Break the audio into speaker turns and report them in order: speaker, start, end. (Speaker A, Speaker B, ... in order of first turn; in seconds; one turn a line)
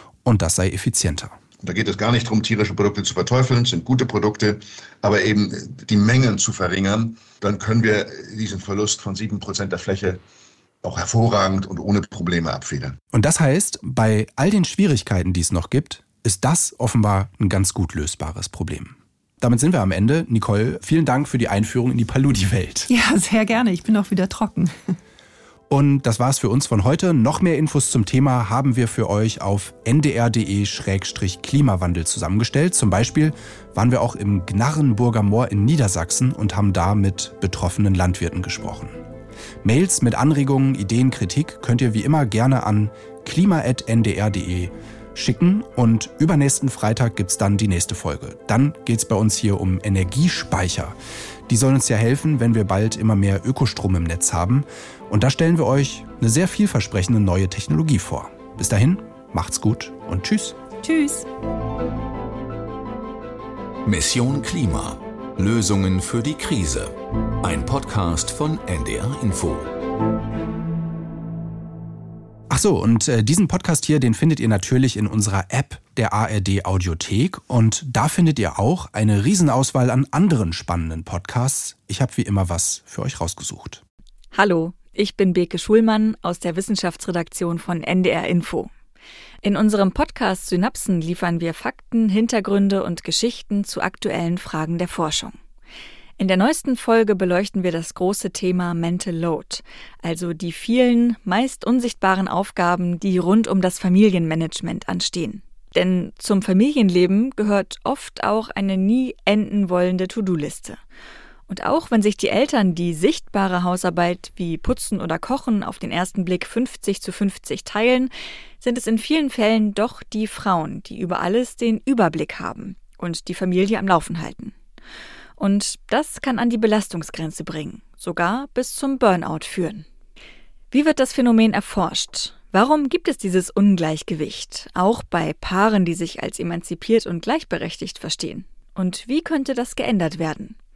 Speaker A: 0.2-1.4
Speaker B: 1.6-10.2
Speaker B: 10.8-13.0
Speaker A: 13.1-22.9
Speaker C: 22.9-25.0
Speaker A: 25.7-39.0
Speaker A: 39.6-51.0
Speaker A: 51.5-60.6
Speaker C: 60.8-61.3
Speaker D: 63.9-69.7
Speaker A: 72.5-83.8
Speaker E: 84.3-88.7
Speaker E: 89.4-95.4
Speaker E: 96.2-110.8
Speaker E: 111.5-124.5
Speaker E: 125.4-129.9
Speaker E: 130.7-140.6